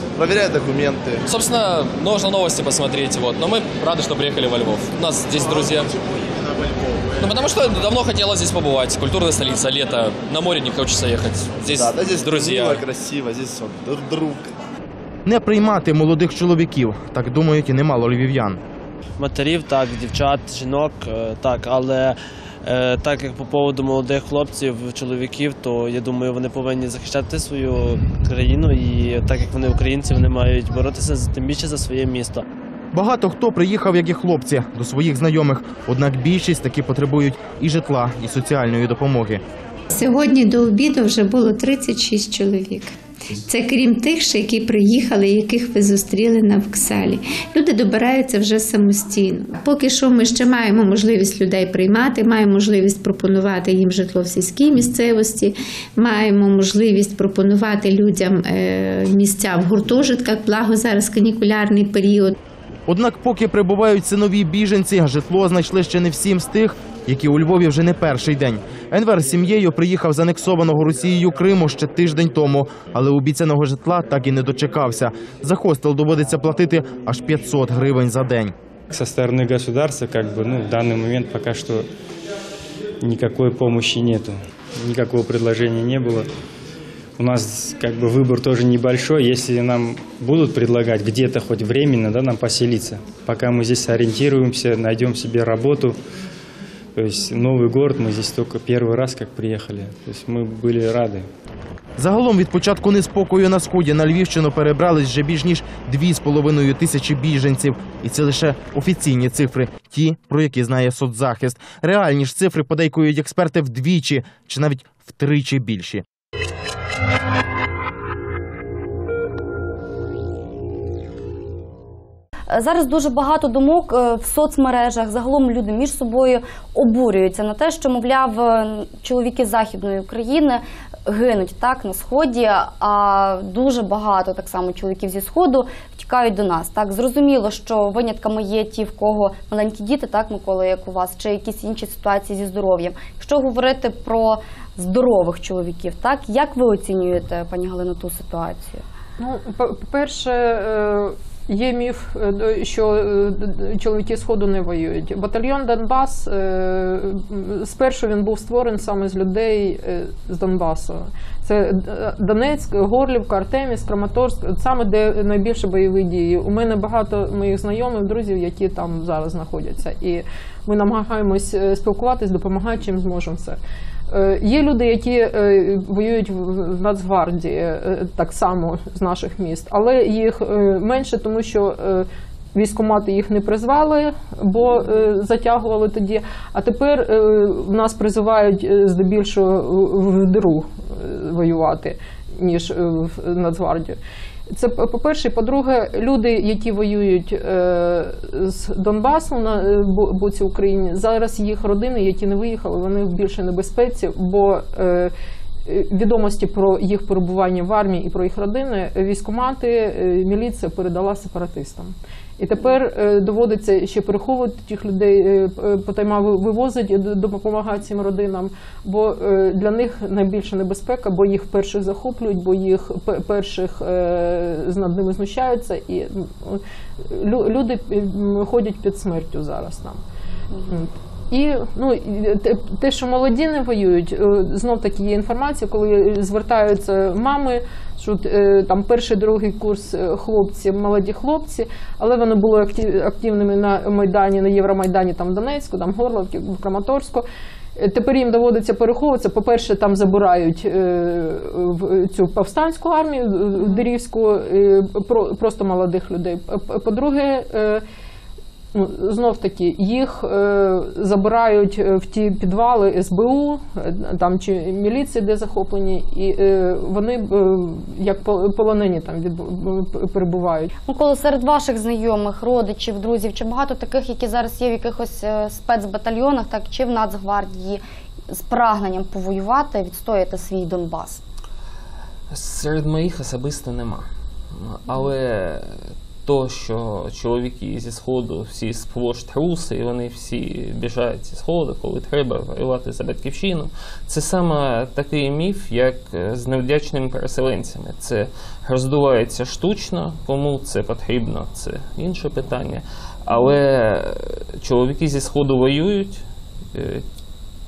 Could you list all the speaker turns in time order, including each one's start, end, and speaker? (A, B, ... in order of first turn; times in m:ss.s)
0:00.2-0:01.2 A
0:01.3-0:05.9 B
0:05.5-0:07.3 A
0:07.2-0:12.8 B
0:11.7-0:14.5 A
0:15.3-0:18.6 C
0:19.2-0:32.4 D
0:32.9-0:39.4 C
0:39.9-1:02.4 E
1:02.9-1:18.5 C
1:18.9-1:21.9 F
1:23.0-1:26.3 F
1:27.2-1:36.0 F
1:37.0-1:41.3 F
1:42.0-1:56.0 C
2:02.5-2:28.8 G
2:29.2-3:14.0 H
3:14.5-3:25.1 H
3:25.7-3:50.0 H
3:50.7-4:07.2 H
4:07.8-4:17.8 H
4:13.6-4:13.9 G
4:18.7-4:30.7 H
4:30.9-4:41.2 G
4:42.3-5:06.2 I
5:06.7-5:07.0 I